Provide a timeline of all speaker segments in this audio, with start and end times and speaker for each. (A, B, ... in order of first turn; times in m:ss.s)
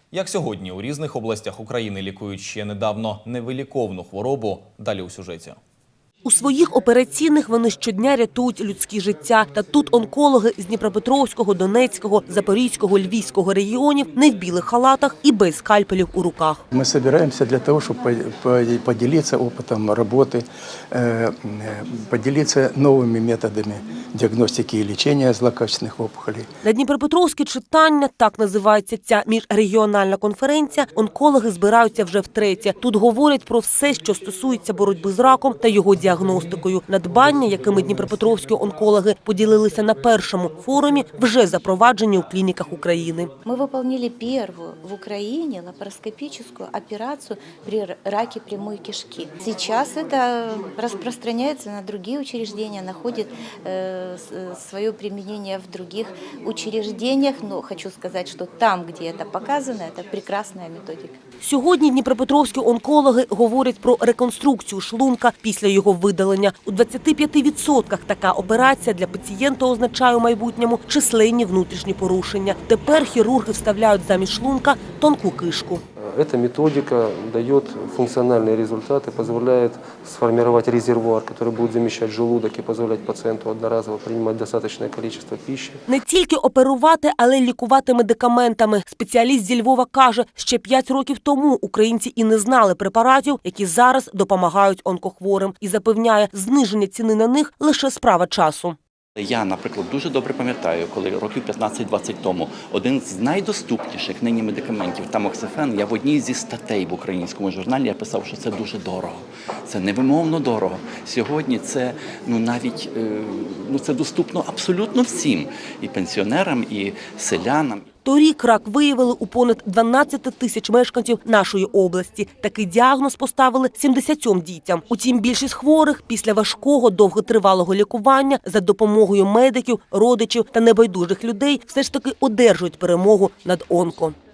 0:00.1-0:05.6 A
0:06.2-0:16.6 B
0:16.7-0:26.5 C
0:26.6-0:43.3 B
0:43.4-1:01.2 D
1:01.4-1:15.8 B
1:16.0-1:25.8 E
1:25.9-1:38.8 B
1:39.2-1:57.8 F
1:58.0-2:14.2 B